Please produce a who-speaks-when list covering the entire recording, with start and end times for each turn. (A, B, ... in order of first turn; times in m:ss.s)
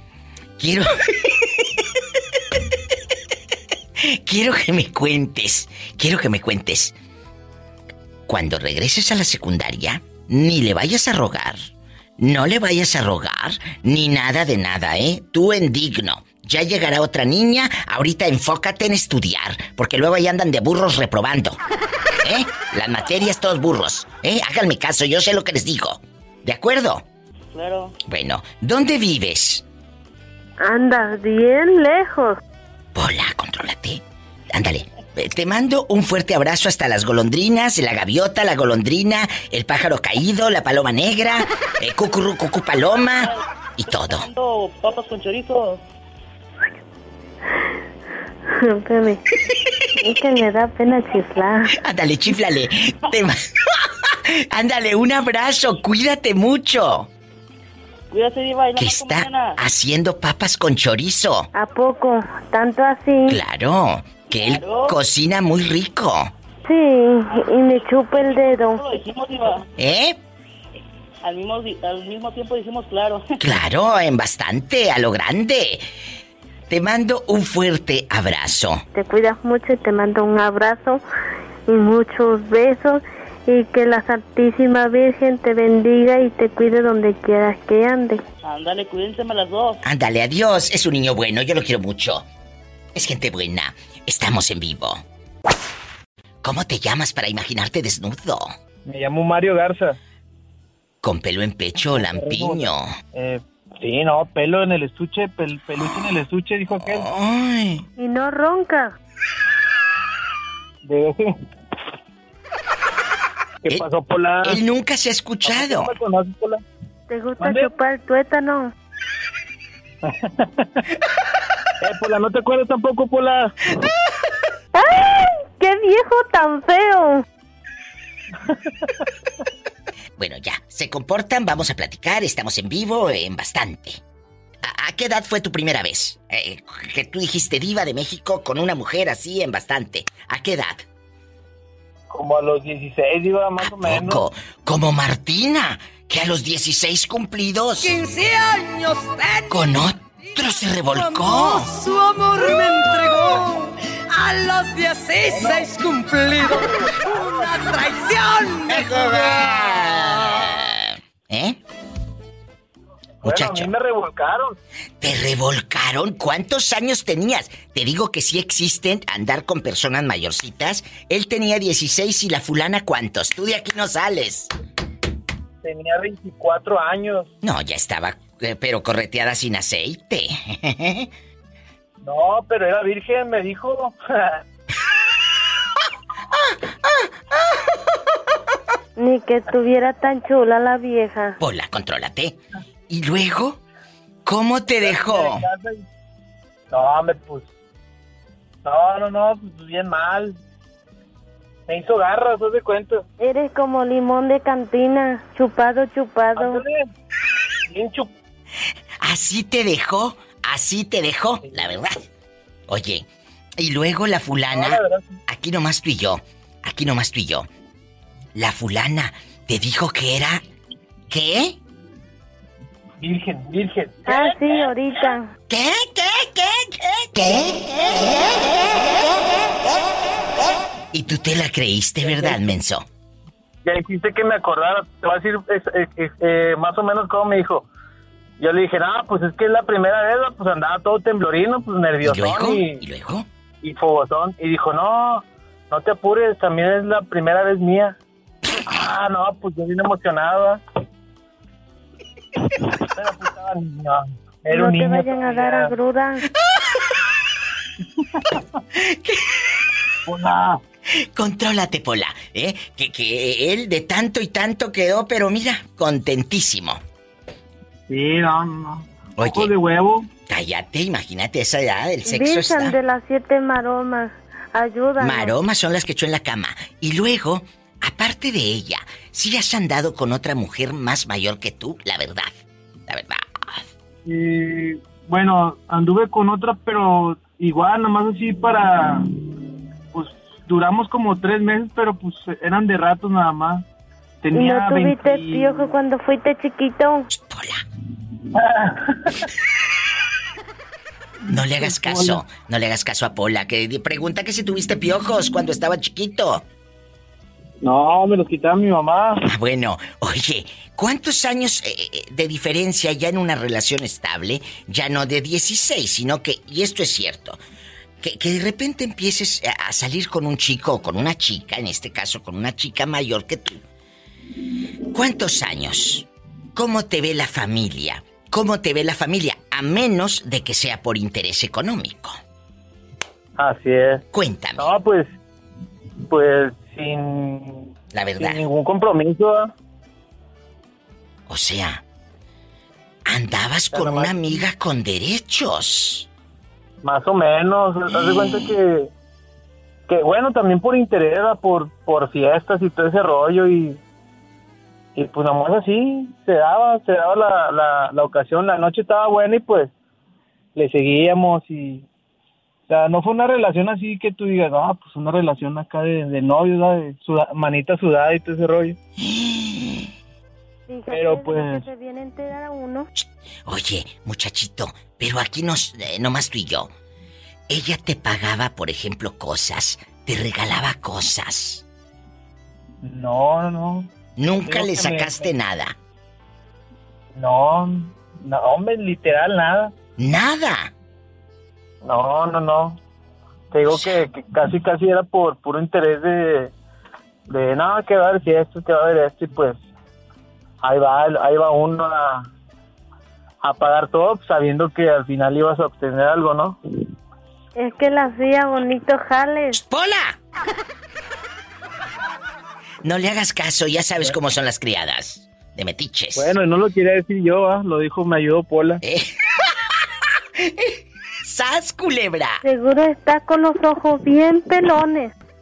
0:00.6-0:01.4 A
0:04.0-0:07.0 A
0:08.3-0:11.6 A
0:12.2-0:21.6 A
0:22.2-0:27.0 A
0:27.5-0:27.9 B
0:28.0-0:29.6 A
0:30.6-0:32.4 C
0:33.0-0:44.3 A
0:43.2-0:45.8 B
0:48.5-0:49.2 C
0:50.0-0:51.7 C
0:51.7-0:53.4 A
0:54.1-0:57.1 A
0:58.1-0:59.6 B
0:58.8-1:01.5 A
1:01.6-1:03.4 C
1:03.3-1:06.3 A
1:04.3-1:05.0 B
1:06.7-1:08.8 C
1:08.1-1:09.7 B
1:09.8-1:10.2 A
1:11.2-1:13.3 B
1:13.4-1:15.8 A
1:16.7-1:18.8 A
1:18.9-1:21.0 C
1:21.7-1:28.2 C
1:28.4-1:29.8 B
1:29.8-1:32.3 A
1:33.0-1:35.0 A
1:36.4-1:38.5 A
1:38.9-1:40.0 D
1:41.0-1:42.9 A
1:41.9-1:47.1 D
1:46.8-1:47.8 A
1:48.0-1:49.0 C
1:50.8-1:51.3 D
1:53.6-1:54.6 D
1:54.4-1:55.9 A
1:55.4-1:56.6 D
1:57.1-1:58.7 C
1:57.4-1:57.7 D
2:00.0-2:00.7 D
2:01.8-2:03.6 D
2:04.8-2:07.2 C
2:10.2-2:14.0 A
2:14.6-2:20.8 A
2:22.1-2:24.2 D
2:23.6-2:28.0 A
2:27.8-2:29.6 E
2:29.5-2:31.7 A
2:30.9-2:39.2 E
2:37.0-2:37.5 D
2:38.7-2:41.6 A
2:43.2-2:44.6 D
2:43.2-2:43.7 A
2:45.0-2:54.5 A
2:55.6-2:57.3 D
2:57.4-3:01.1 A
3:02.0-3:04.4 D
3:06.3-3:07.1 A
3:09.0-3:11.4 C
3:11.4-3:13.6 A
3:14.2-3:15.4 A
3:14.8-3:15.8 D
3:16.7-3:17.5 D
3:18.6-3:20.4 D
3:21.7-3:23.0 D
3:23.2-3:26.6 C
3:26.4-3:26.9 D
3:27.7-3:28.1 D
3:29.0-3:32.0 A
3:31.4-3:31.8 D
3:32.7-3:33.1 A
3:33.6-3:37.5 A
3:34.5-3:35.2 D
3:38.4-3:40.4 A
3:41.1-3:41.6 A
3:43.0-3:44.4 D
3:44.1-3:45.3 C
3:45.5-3:48.4 A
3:50.9-3:52.8 A
3:52.0-3:52.4 D
3:53.6-3:57.7 D
3:58.4-4:02.8 D
4:02.0-4:03.3 A
4:03.6-4:08.0 D
4:08.7-4:10.6 D
4:12.8-4:15.8 D
4:14.5-4:16.2 C
4:18.8-4:19.3 A
4:20.1-4:20.6 D
4:21.0-4:26.8 A
4:27.9-4:30.1 D
4:29.2-4:29.5 A
4:30.3-4:32.8 A
4:32.1-4:35.4 C
4:35.0-4:42.3 A
4:42.9-4:43.7 A
4:44.0-4:49.1 D
4:49.9-4:53.6 D
4:54.2-4:55.7 D
4:54.3-4:57.1 C
4:57.1-4:57.6 A
4:58.4-4:59.2 D
5:01.3-5:06.4 A
5:01.6-5:02.2 D
5:07.6-5:09.2 D
5:09.2-5:17.4 A
5:18.0-5:23.6 A
5:24.9-5:32.2 A
5:33.4-5:34.0 D
5:34.1-5:34.7 A
5:34.6-5:35.2 D
5:36.1-5:39.5 D
5:37.9-5:38.4 A
5:41.3-5:41.8 A
5:43.1-5:46.1 A
5:43.7-5:44.4 D
5:46.8-5:48.9 D
5:47.9-5:48.6 A
5:49.9-5:53.8 D
5:55.0-5:59.7 D
6:00.6-6:01.9 D
6:02.7-6:08.8 D
6:09.0-6:09.9 A
6:10.7-6:12.9 C
6:10.9-6:11.6 D
6:13.0-6:16.7 A
6:17.5-6:21.6 A
6:22.8-6:23.9 D
6:24.2-6:25.8 A
6:24.4-6:25.3 D
6:27.2-6:29.7 D
6:30.0-6:30.7 A
6:31.8-6:32.8 D
6:33.5-6:36.5 D
6:33.7-6:34.0 A
6:37.3-6:39.6 D
6:40.6-6:42.3 D
6:43.4-6:46.6 D
6:47.6-6:49.6 C
6:49.5-6:50.2 A
6:52.8-6:56.3 A
6:56.2-6:58.8 D
6:58.8-6:59.1 A
7:00.4-7:02.4 A
7:02.4-7:05.1 C